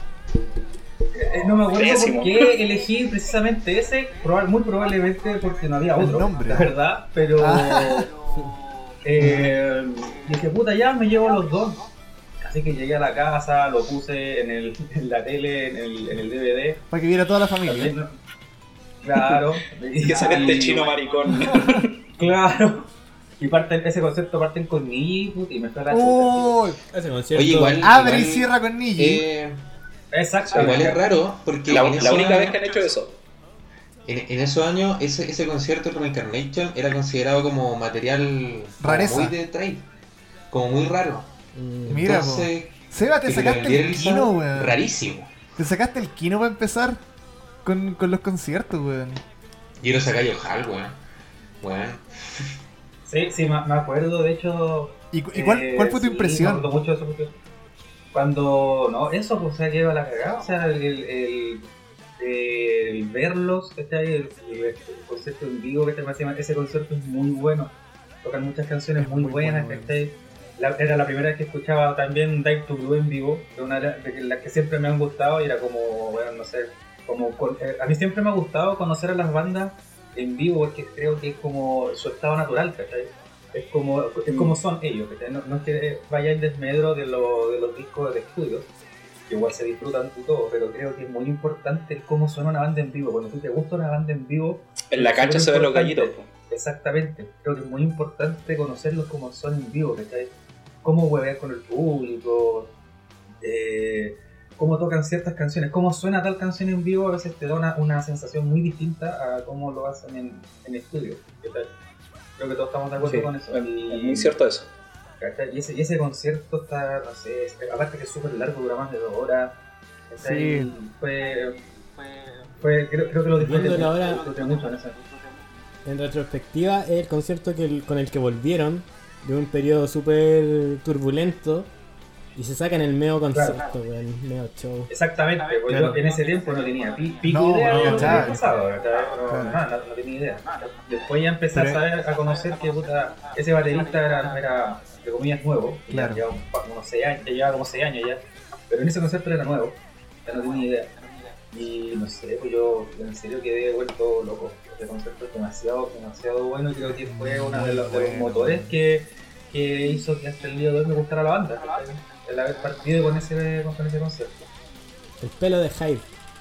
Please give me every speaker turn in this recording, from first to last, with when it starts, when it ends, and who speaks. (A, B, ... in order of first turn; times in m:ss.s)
0:01.1-0:08.1 A
0:01.7-0:02.6 B
0:06.0-0:06.7 C
0:07.4-0:08.1 C
0:09.0-0:11.8 A
0:09.2-0:09.6 C
0:12.4-0:16.8 A
0:16.9-0:18.0 C
0:17.6-0:18.1 A
0:19.0-0:20.9 A
0:20.0-0:22.1 B
0:21.5-0:21.8 C
0:22.2-0:26.6 A
0:25.9-0:26.8 C
0:26.9-0:28.2 D
0:27.3-0:29.6 E
0:27.8-0:29.2 C
0:30.1-0:31.0 A
0:30.5-0:32.6 E
0:31.7-0:33.2 B
0:34.1-0:39.9 E
0:38.8-0:39.4 C
0:40.5-0:41.3 E
0:41.5-0:42.1 D
0:41.9-0:44.8 C
0:42.0-0:45.3 E
0:45.6-0:47.0 C
0:47.6-0:49.2 C
0:49.8-0:51.0 E
0:51.6-0:52.5 E
0:53.1-0:57.3 A
0:55.1-0:56.7 C
0:58.1-1:28.7 A
1:09.0-1:10.0 C
1:24.3-1:24.6 B
1:29.3-1:42.7 A
1:34.9-1:36.3 B
1:43.4-1:51.7 A
1:52.4-1:54.3 A
1:53.0-1:54.7 B
1:55.2-1:59.6 A
2:00.1-2:01.6 A
2:00.2-2:00.7 C
2:02.6-2:05.0 A
2:03.4-2:04.2 D
2:05.8-2:11.7 D
2:12.4-2:14.9 D
2:13.3-2:13.6 A
2:14.9-2:30.9 A
2:15.7-2:16.0 C
2:17.2-2:18.4 C
2:17.8-2:18.3 D
2:19.3-2:19.6 C
2:21.5-2:21.8 C
2:25.9-2:26.2 C
2:31.5-2:44.4 A
2:36.9-2:38.8 C
2:45.2-2:46.1 D